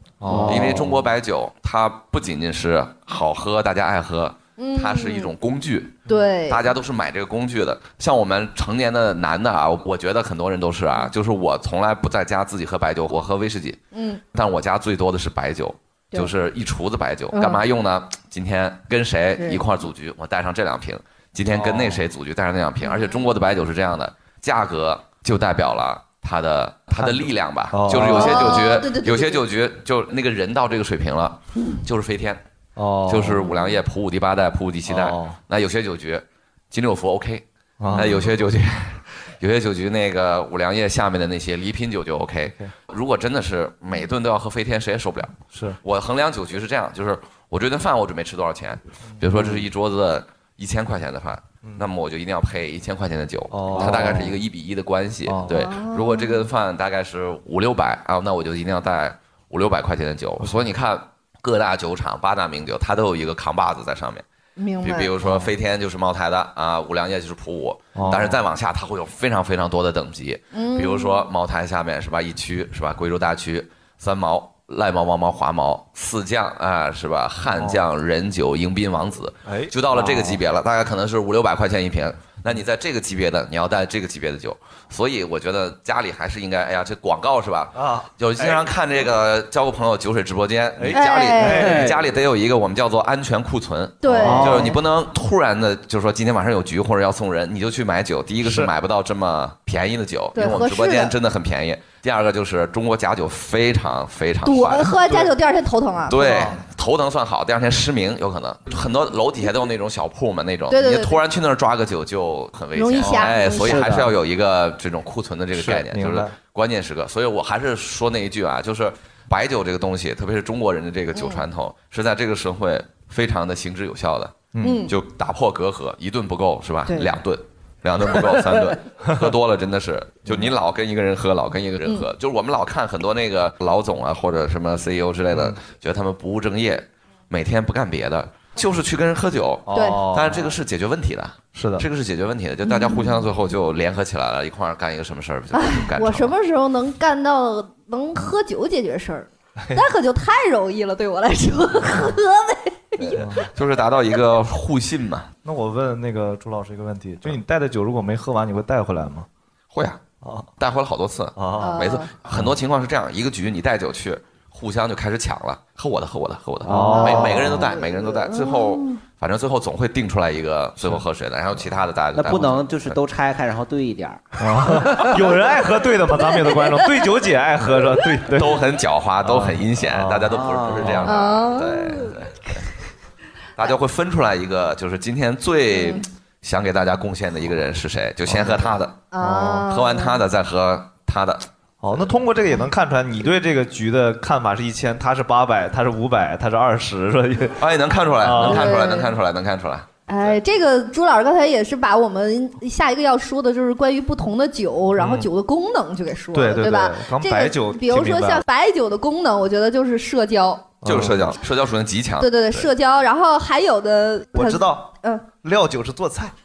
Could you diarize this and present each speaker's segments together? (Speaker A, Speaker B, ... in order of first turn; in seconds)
Speaker A: 0.2-1.0, 21.5-22.0, 26.9-28.5, 32.8-33.5, 34.9-35.4, 37.8-38.3, 45.5-45.8, 49.2-49.7, 53.5-54.3, 55.2-55.5, 60.4-60.7, 67.9-68.4, 77.5-77.8, 79.4-80.3, 87.7-88.7, 90.8-91.9, 94.0-94.7, 98.4-98.7, 105.0-105.3, 106.3-106.6, 113.0-113.3, 115.5-116.4, 124.5-124.9, 130.2-130.6, 135.3-135.6, 139.7-140.6, 141.5-141.9, 153.0-153.5, 155.4-159.3, 160.2-160.5, 161.3-162.6, 166.7-167.6, 174.4-178.6, 179.2-181.1, 188.3-189.7, 191.8-197.6, 198.2-198.8, 205.0-205.3, 206.3-208.4, 210.8-211.3, 214.3-216.3
Speaker B: 0.3-0.9, 53.8-54.3, 91.7-92.0, 94.3-94.6, 113.7-114.0, 166.6-166.9, 172.1-175.1, 180.3-181.0
Speaker C: 0.5-6.0, 6.5-13.8, 14.3-32.4, 33.1-37.4, 37.9-64.2, 64.8-104.9, 106.1-146.3, 153.0-155.3, 159.7-160.0, 160.6-173.0, 178.3-182.3, 183.6-188.9, 189.7-191.4, 197.6-199.9, 210.8-212.7
Speaker D: 4.6-5.3, 6.1-6.7, 13.9-14.2, 17.3-17.6, 22.8-23.2, 28.0-29.4, 33.4-33.7, 55.5-56.4, 64.6-65.2, 70.5-71.3, 90.9-91.8, 94.0-94.8, 100.3-101.2, 104.5-106.5, 110.7-111.2, 112.8-113.9, 121.2-121.4, 124.6-124.9, 139.7-140.1, 142.7-143.2, 145.5-153.2, 161.6-162.2, 166.8-169.0, 176.2-176.8, 181.0-182.2, 185.7-186.0, 189.1-190.2, 198.4-199.1, 200.1-210.8, 212.2-215.3